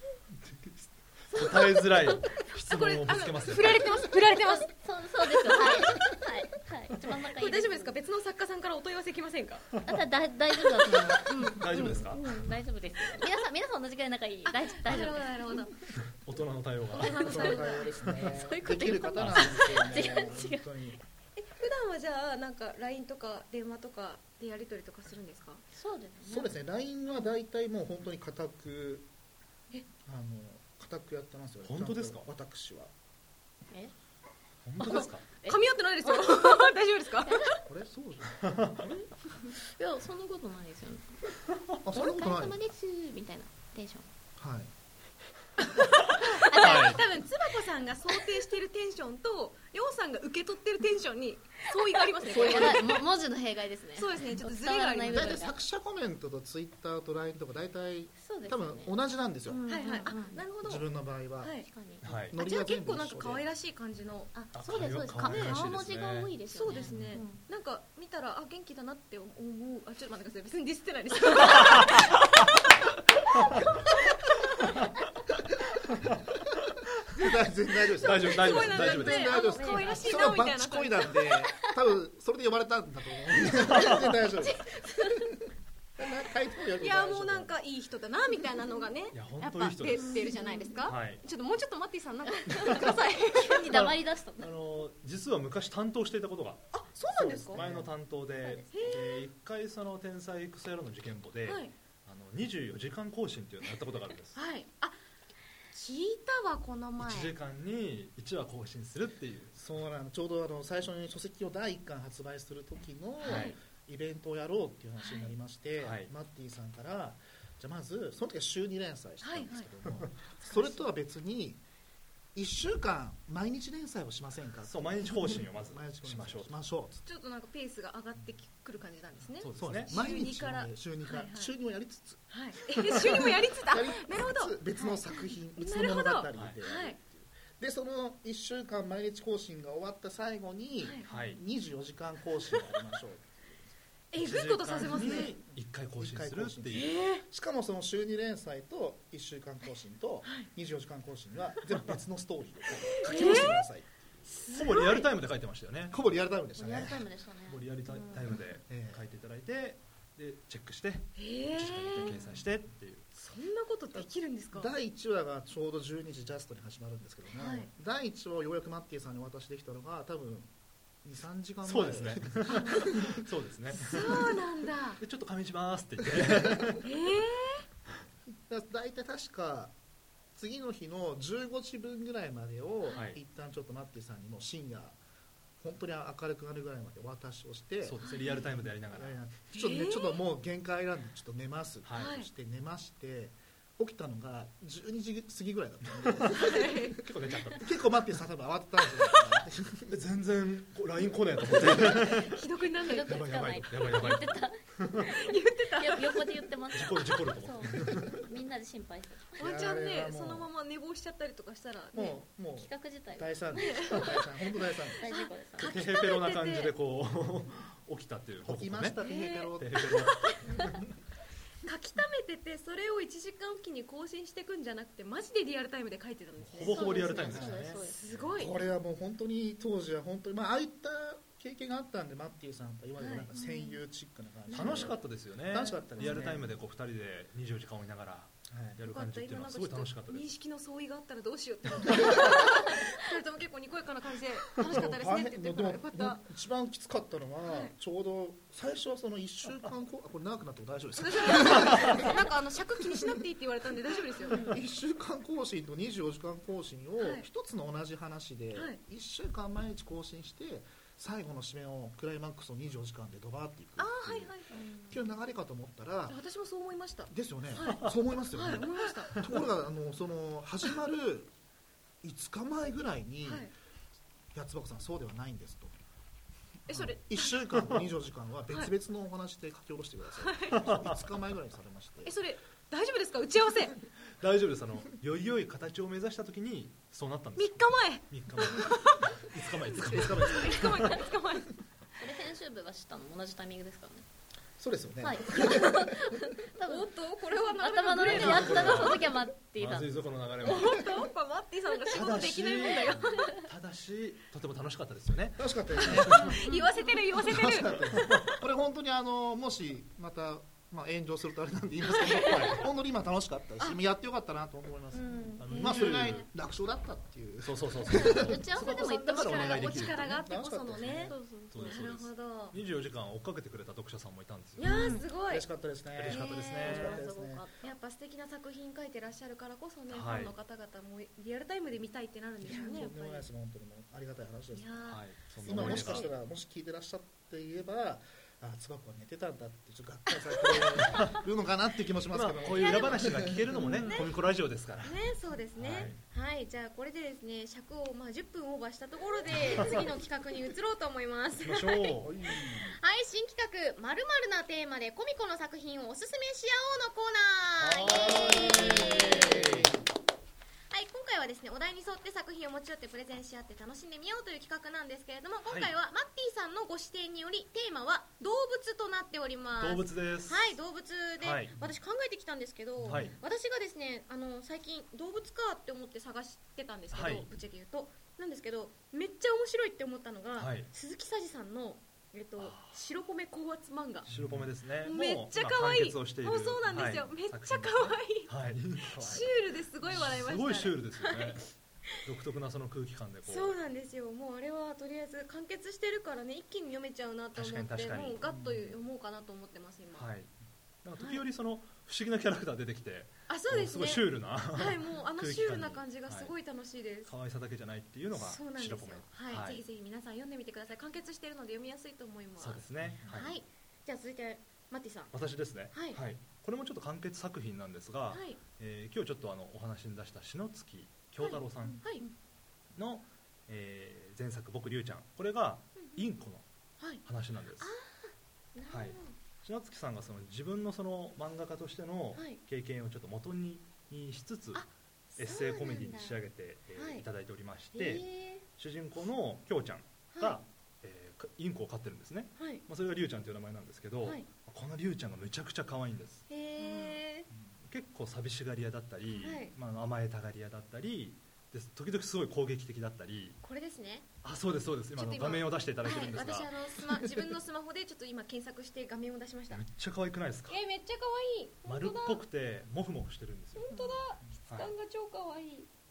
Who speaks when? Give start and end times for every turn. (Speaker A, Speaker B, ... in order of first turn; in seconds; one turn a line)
Speaker A: 0.4-3.9
Speaker B: 2.5-4.7
Speaker C: 3.9-7.9
Speaker B: 5.5-6.0
Speaker B: 7.3-9.7
Speaker A: 9.8-10.0
Speaker C: 9.8-15.7
Speaker B: 11.3-11.6
Speaker A: 11.4-12.4
Speaker B: 14.4-15.8
Speaker A: 16.1-17.4
Speaker B: 16.9-17.9
Speaker C: 16.9-20.6
Speaker D: 17.2-21.0
Speaker A: 19.1-19.6
Speaker B: 21.4-25.6
Speaker C: 25.7-26.5
Speaker D: 26.2-29.1
Speaker D: 30.0-32.9
Speaker A: 31.6-32.2
Speaker A: 34.6-35.2
Speaker C: 34.8-36.6
Speaker B: 34.8-37.6
Speaker C: 37.3-37.6
Speaker D: 37.6-39.0
Speaker A: 38.4-38.8
Speaker C: 38.9-41.3
Speaker D: 41.8-42.6
Speaker C: 41.9-44.1
Speaker D: 44.4-44.7
Speaker B: 45.8-53.1
Speaker C: 46.2-47.0
Speaker A: 46.5-47.0
Speaker C: 52.2-55.6
Speaker B: 54.0-55.4
Speaker D: 55.1-59.8
Speaker C: 58.2-58.9
Speaker C: 59.5-60.4
Speaker B: 59.7-60.9
Speaker D: 60.6-63.4
Speaker B: 61.4-61.7
Speaker C: 61.6-62.1
Speaker A: 62.0-62.4
Speaker B: 62.3-64.3
Speaker C: 64.3-67.4
Speaker A: 64.5-67.2
Speaker B: 65.2-65.7
Speaker B: 66.4-72.5
Speaker A: 71.5-72.1
Speaker A: 74.6-74.9
Speaker A: 75.9-76.4
Speaker D: 77.1-85.3
Speaker A: 78.0-79.4
Speaker B: 78.0-81.2
Speaker C: 79.3-80.3
Speaker A: 83.7-84.1
Speaker B: 84.4-85.1
Speaker D: 86.0-87.5
Speaker B: 86.8-93.9
Speaker A: 89.1-90.2
Speaker C: 90.0-90.7
Speaker A: 90.8-91.2
Speaker C: 92.5-94.5
Speaker A: 92.5-92.9
Speaker A: 93.7-104.4
Speaker B: 96.7-97.6
Speaker D: 97.5-97.9
Speaker C: 98.4-99.0
Speaker B: 98.7-99.2
Speaker B: 101.5-101.7
Speaker B: 104.3-104.9
Speaker B: 105.7-107.3
Speaker A: 107.0-109.5
Speaker D: 109.5-121.6
Speaker A: 113.2-113.5
Speaker B: 113.2-113.5
Speaker A: 115.8-116.1
Speaker B: 119.2-119.7
Speaker D: 122.3-127.0
Speaker A: 124.7-126.6
Speaker B: 127.0-131.5
Speaker A: 129.4-129.9
Speaker D: 129.6-132.2
Speaker B: 132.3-135.0
Speaker D: 132.9-143.7
Speaker B: 135.6-137.0
Speaker B: 140.8-141.1
Speaker A: 141.1-141.4
Speaker B: 144.1-145.3
Speaker A: 144.1-147.0
Speaker D: 144.9-154.4
Speaker B: 146.7-147.2
Speaker B: 152.9-153.6
Speaker B: 154.3-155.1
Speaker A: 154.5-156.0
Speaker D: 155.9-157.1
Speaker C: 156.6-158.3
Speaker A: 157.4-163.1
Speaker D: 158.6-159.0
Speaker B: 161.2-162.3
Speaker B: 163.1-164.7
Speaker D: 164.5-170.5
Speaker B: 167.3-167.7
Speaker D: 171.0-173.2
Speaker A: 171.6-174.4
Speaker B: 172.5-172.9
Speaker B: 173.7-175.0
Speaker A: 175.0-176.8
Speaker D: 176.1-176.7
Speaker B: 176.8-177.6
Speaker D: 178.3-179.7
Speaker D: 180.3-185.0
Speaker A: 182.9-183.2
Speaker D: 185.6-196.9
Speaker A: 187.8-189.3
Speaker B: 188.0-188.4
Speaker B: 189.5-190.2
Speaker A: 191.8-192.2
Speaker B: 191.9-192.3
Speaker A: 196.0-197.7
Speaker B: 196.3-197.1
Speaker D: 197.5-199.9
Speaker A: 199.9-202.4
Speaker B: 201.6-203.3
Speaker C: 202.7-209.5
Speaker A: 203.0-205.1
Speaker B: 205.1-206.4
Speaker A: 206.7-208.2
Speaker B: 209.4-212.2
Speaker D: 209.4-210.5
Speaker D: 211.9-215.0
Speaker C: 212.6-214.2
Speaker B: 213.6-214.3
Speaker C: 215.0-215.7
Speaker B: 215.1-216.7
Speaker A: 215.6-219.0
Speaker D: 218.4-220.0
Speaker B: 219.0-220.6
Speaker A: 219.6-220.7
Speaker B: 221.6-228.6
Speaker A: 226.4-228.3
Speaker C: 226.6-228.0
Speaker D: 227.3-227.7
Speaker D: 228.3-236.5
Speaker B: 233.0-233.7
Speaker A: 234.5-240.3
Speaker B: 234.6-234.8
Speaker D: 238.5-238.8
Speaker B: 238.8-246.2
Speaker D: 244.7-252.3
Speaker B: 247.4-247.7
Speaker B: 251.0-254.5
Speaker D: 252.9-253.2
Speaker D: 254.3-266.2
Speaker B: 257.0-257.2
Speaker B: 263.8-264.8
Speaker B: 266.1-269.3
Speaker D: 267.1-271.3
Speaker D: 272.0-273.5
Speaker B: 273.2-273.5
Speaker D: 274.3-275.8
Speaker B: 276.7-277.6
Speaker D: 276.7-282.2
Speaker B: 280.2-280.7
Speaker A: 280.6-280.9
Speaker B: 282.0-283.8
Speaker A: 284.2-291.0
Speaker B: 287.4-289.1
Speaker B: 289.7-291.6
Speaker D: 289.9-290.7
Speaker C: 292.0-294.1
Speaker D: 294.6-296.2
Speaker C: 295.0-296.9
Speaker B: 296.6-299.1
Speaker C: 297.5-300.0
Speaker A: 298.0-301.0
Speaker B: 300.4-303.4
Speaker A: 301.9-306.3
Speaker D: 305.4-306.4
Speaker B: 305.8-308.1
Speaker C: 306.4-306.8
Speaker D: 307.1-318.5
Speaker A: 307.9-308.3
Speaker B: 312.0-312.2
Speaker A: 312.2-312.7
Speaker C: 314.9-316.1
Speaker A: 315.4-316.3
Speaker A: 317.4-320.2
Speaker C: 317.9-319.9
Speaker B: 318.6-322.5
Speaker D: 320.0-321.1
Speaker C: 320.9-321.9
Speaker A: 321.5-324.7
Speaker B: 324.6-325.4
Speaker C: 324.6-325.0
Speaker D: 325.3-327.5
Speaker A: 325.9-327.1
Speaker B: 326.1-326.8
Speaker C: 326.6-327.6
Speaker B: 327.6-333.2
Speaker A: 329.9-330.3
Speaker D: 332.4-343.6
Speaker B: 334.5-336.1
Speaker A: 334.9-336.1
Speaker A: 342.1-345.0
Speaker B: 343.5-344.1
Speaker E: 343.8-344.1
Speaker E: 344.8-351.8
Speaker A: 345.6-346.0
Speaker B: 349.1-349.9
Speaker A: 349.3-349.8
Speaker A: 351.4-352.1
Speaker D: 352.0-352.8
Speaker E: 352.7-359.6
Speaker A: 357.6-359.7
Speaker D: 357.7-359.7
Speaker E: 360.7-382.6
Speaker A: 365.5-365.7
Speaker A: 369.6-370.5
Speaker A: 371.2-371.7
Speaker D: 372.8-373.1
Speaker A: 372.8-373.1
Speaker B: 376.9-378.0
Speaker A: 376.9-377.3
Speaker B: 378.8-380.3
Speaker A: 380.3-380.7
Speaker B: 382.4-384.1
Speaker A: 382.4-382.8
Speaker A: 384.1-391.5
Speaker D: 384.1-384.5
Speaker B: 384.8-388.3
Speaker B: 388.9-391.4
Speaker D: 388.9-389.3
Speaker A: 392.0-393.6
Speaker B: 393.3-400.1
Speaker E: 393.4-395.9
Speaker A: 397.3-398.2
Speaker D: 398.2-398.7
Speaker A: 399.9-400.3
Speaker A: 400.8-406.3
Speaker B: 403.3-407.1
Speaker A: 407.1-409.6
Speaker B: 408.1-412.6
Speaker A: 412.4-413.3
Speaker D: 412.8-413.2
Speaker E: 413.1-415.1
Speaker A: 415.1-421.8
Speaker E: 415.7-416.0
Speaker E: 421.2-422.1
Speaker A: 422.7-426.4
Speaker A: 427.0-427.7
Speaker E: 427.6-429.1
Speaker A: 428.7-434.6
Speaker E: 434.5-436.2
Speaker A: 435.2-446.3
Speaker E: 436.8-437.0
Speaker E: 437.7-438.4
Speaker E: 440.1-440.4
Speaker E: 446.3-447.2
Speaker B: 446.5-447.2
Speaker A: 447.6-453.4
Speaker B: 449.2-449.5
Speaker E: 449.2-449.5
Speaker E: 453.4-454.0
Speaker A: 454.2-456.6
Speaker B: 454.9-459.6
Speaker A: 459.5-460.6
Speaker B: 460.5-462.1
Speaker E: 460.7-462.0
Speaker A: 461.6-463.7
Speaker B: 463.6-465.7